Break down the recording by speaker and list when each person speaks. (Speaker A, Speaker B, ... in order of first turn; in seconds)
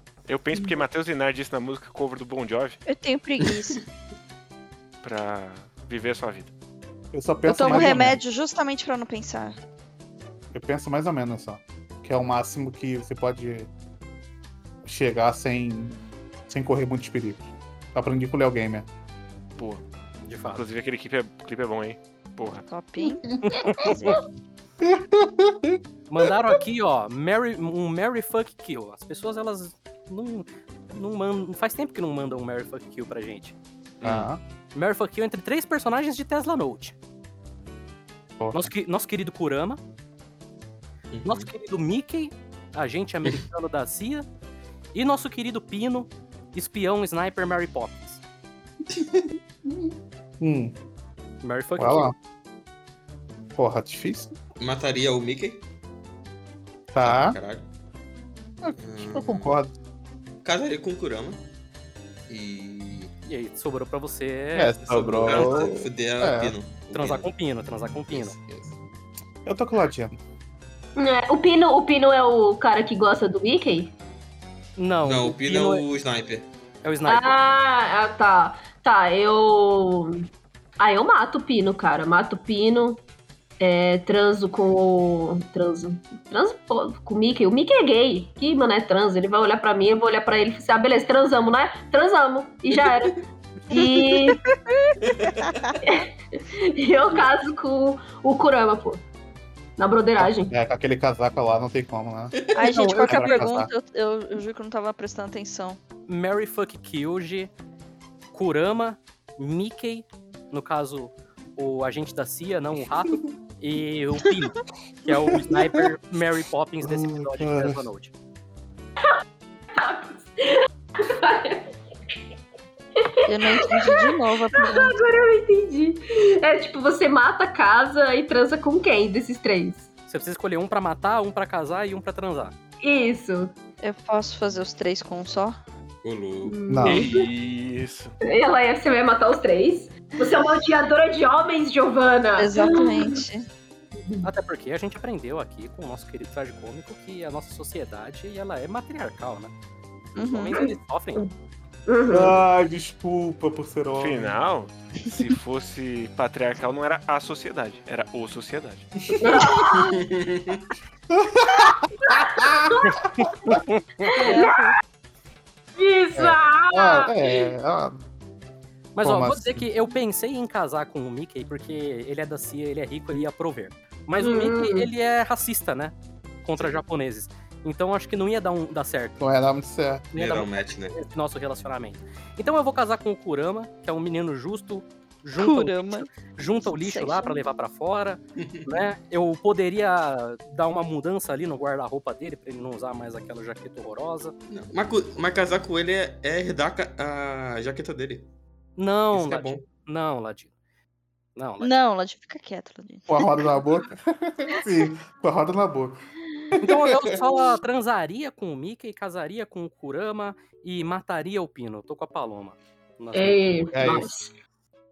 Speaker A: 0.3-2.8, 5.0-6.5, 7.8-8.1, 19.6-19.8, 20.5-22.6, 34.0-34.3, 136.8-138.1, 154.0-158.9
Speaker B: 2.9-3.8, 7.5-9.6, 22.7-24.2, 93.7-94.3, 102.5-105.8, 123.3-125.0, 133.8-135.6, 142.4-143.5, 150.2-150.6, 164.1-164.7, 185.4-187.4, 201.6-203.1
Speaker C: 7.1-8.2, 10.5-13.7, 14.8-18.9, 24.8-25.8, 34.0-34.4, 38.4-38.7, 49.6-50.8, 51.8-52.1, 53.5-54.3, 56.9-57.4, 58.6-59.7, 64.5-66.5, 69.5-70.2, 100.2-103.7, 115.3-115.9, 116.8-117.8, 136.7-137.1, 152.1-154.4, 159.1-159.6, 161.1-163.6, 166.2-168.0, 169.0-169.7, 179.2-180.1, 203.1-206.0, 206.6-207.2, 213.7-214.1
Speaker D: 20.2-20.6, 23.4-24.1, 26.1-33.5, 34.7-36.9, 38.5-39.8, 41.2-44.2, 44.9-48.2, 51.4-52.1, 63.2-65.7, 66.9-68.3, 74.8-75.8, 76.8-77.3, 106.1-107.5, 108.3-118.1, 130.1-132.5, 144.2-149.5, 150.2-151.2, 168.9-179.2, 180.1-194.3, 198.8-200.5, 201.3-201.7, 206.6-213.7
Speaker E: 41.1-41.5, 48.9-49.2, 54.6-55.6, 57.0-57.7, 58.8-59.6, 60.4-61.4, 62.3-63.1, 64.9-67.3, 68.1-68.7, 75.0-76.5, 95.1-95.3, 102.3-103.3, 136.0-136.6, 159.7-160.6, 180.1-181.0, 188.4-188.7, 194.5-198.3, 199.1-199.7
Speaker F: 71.0-73.9, 77.0-80.3, 80.8-83.0, 83.6-93.1, 93.7-94.4, 95.8-99.0, 99.8-100.5, 119.7-121.7, 123.0-129.9, 132.8-133.5, 136.4-137.2, 138.2-143.2, 144.0-144.2, 150.6-151.3, 151.9-152.4, 159.2-160.0, 162.1-163.0, 164.1-164.7, 165.8-167.4, 174.2-174.9, 213.1-214.3